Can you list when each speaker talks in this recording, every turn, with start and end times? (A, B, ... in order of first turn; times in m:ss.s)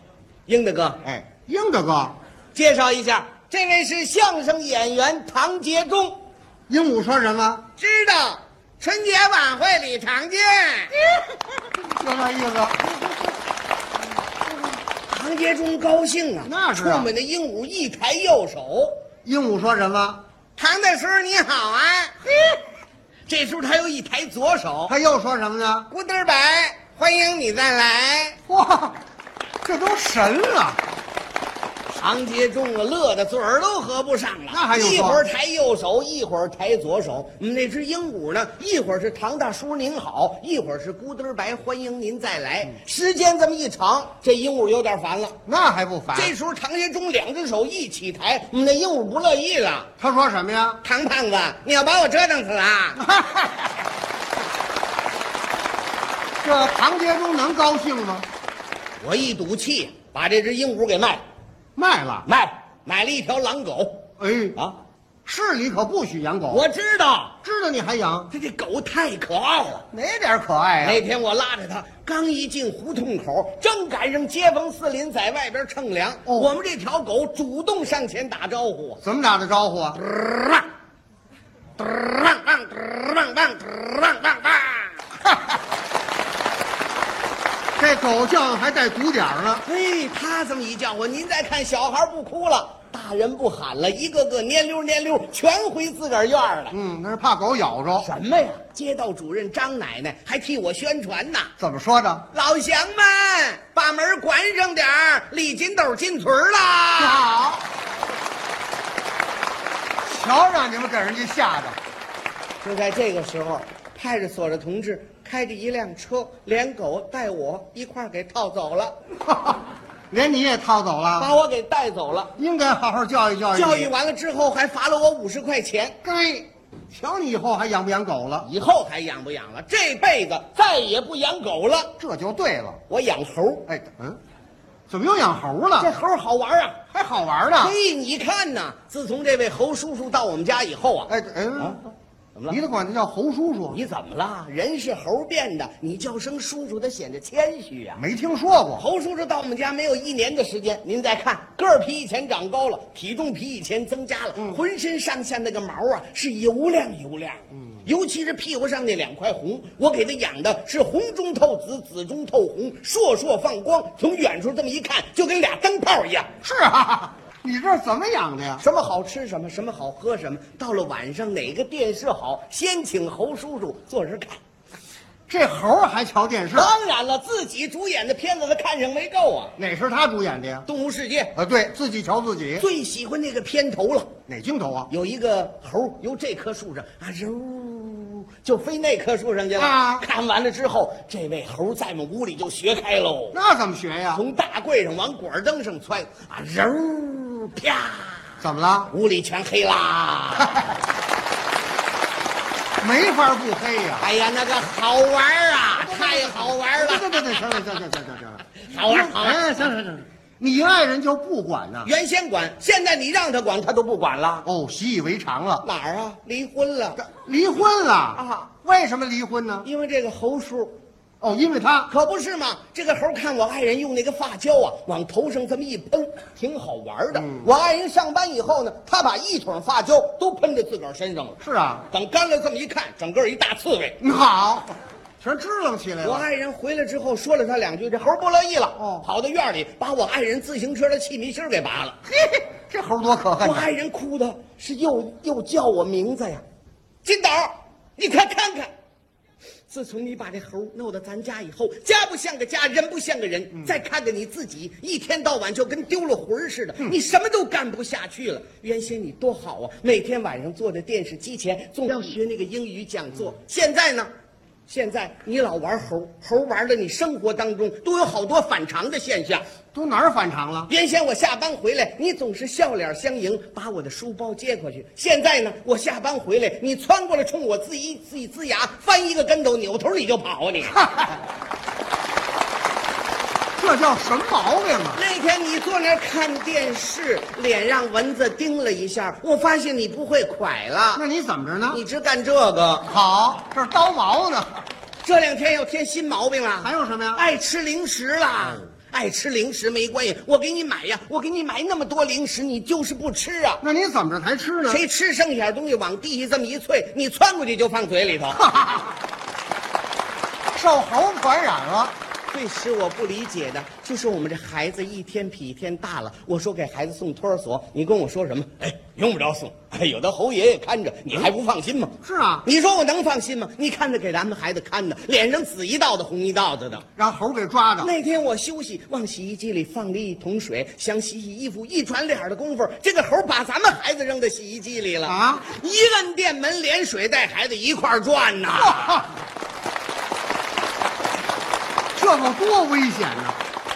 0:00.5-0:01.0 A
0:01.0-0:02.2 B
0:02.6-0:06.2 A
0:06.7-0:07.7 B
0:07.8-0:11.0 A
0:11.8-0:13.0 B
0:14.9-0:19.0 A
0:16.4-0:17.1 B
0:19.2-0:20.2 B
0:20.6-0:22.5 A
0:23.3-0:25.0 A
0:24.9-0:25.9 B
0:25.9-0:28.4 A
0:28.5-0:29.0 B
0:29.6-0:30.8 B
0:32.0-0:45.4 A
0:34.5-0:35.2 B
0:45.5-0:46.3 B
0:46.1-0:49.9 A
0:50.0-0:50.8 B
0:50.8-0:53.0 A
0:53.0-0:53.7 B
0:56.4-0:58.3 B
0:59.0-1:01.2 A
1:01.8-1:02.3 B
1:02.3-1:04.0 A
1:04.2-1:04.6 B
1:05.2-1:06.6 B
1:06.5-1:07.4 A
1:07.4-1:08.3 B
1:08.3-1:09.9 A
1:09.9-1:11.0 B
1:10.8-1:19.0 A
1:19.0-1:20.0 B
1:20.0-1:20.6 A
1:21.8-1:25.1 A
1:27.8-1:29.6 B
1:29.6-1:36.8 A
1:36.7-1:38.1 B
1:38.0-1:41.5 A
1:41.6-1:42.3 B
1:42.3-1:47.3 A
1:47.0-1:47.6 B
1:50.0-1:51.8 B
1:52.6-1:59.0 A
1:59.2-2:01.3 B
2:01.2-2:02.3 A
2:02.4-2:03.9 B
2:03.5-2:06.0 A
2:06.0-2:08.5 B
2:08.4-2:11.9 A
2:12.0-2:12.8 B
2:12.9-2:13.7 A
2:13.7-2:14.2 B
2:14.9-2:15.9 B
2:15.8-2:16.8 A
2:16.9-2:17.8 B
2:17.6-2:21.8 A
2:21.1-2:21.9 B
2:22.5-2:23.8 B
2:23.7-2:28.0 A
2:28.0-2:28.8 B
2:28.8-2:46.3 A
2:46.4-2:48.6 B
2:48.6-2:54.4 A
2:55.3-2:56.7 B
2:56.5-2:59.5 A
2:59.6-3:00.7 B
3:00.7-3:01.3 A
3:01.4-3:02.7 B
3:02.6-3:04.1 A
3:04.3-3:04.9 B
3:04.9-3:13.4 A
3:09.6-3:10.1 B
3:13.3-3:14.2 B
3:14.1-3:18.4 A
3:18.4-3:18.9 B
3:18.9-3:20.6 A
3:22.8-3:24.1 B
3:24.0-3:27.7 A
3:25.8-3:31.9 B
3:28.6-3:29.5 A
3:31.8-3:34.5 A
3:34.4-3:35.6 B
3:35.6-3:37.0 A
3:37.0-3:39.7 B
3:38.2-3:38.5 A
3:39.6-3:40.8 A
3:41.2-3:41.9 B
3:41.9-3:54.0 A
3:47.2-3:47.5 B
3:51.4-3:51.9 B
3:54.0-3:56.3 B
3:56.0-4:02.0 A
3:58.8-3:59.1 B
4:02.1-4:03.7 B
4:03.4-4:06.4 A
4:07.0-4:08.7 A
4:09.7-4:24.1 A
4:24.7-4:29.4 A
4:29.7-4:30.7 B
4:30.7-4:40.9 A
4:40.8-4:41.1 B
4:43.6-4:45.0 B
4:44.9-4:51.0 A
4:51.0-4:51.8 B
4:51.7-4:52.9 A
4:52.9-4:54.6 B
4:55.0-5:03.6 A
4:56.6-4:57.2 B
5:03.6-5:04.8 B
5:04.7-5:08.4 A
5:08.4-5:09.0 B
5:10.5-5:12.0 B
5:12.3-5:26.8 A
5:22.0-5:22.5 B
5:27.0-5:27.9 B
5:27.8-5:39.1 A
5:35.0-5:35.5 B
5:38.6-5:39.1 B
5:42.0-5:43.4 B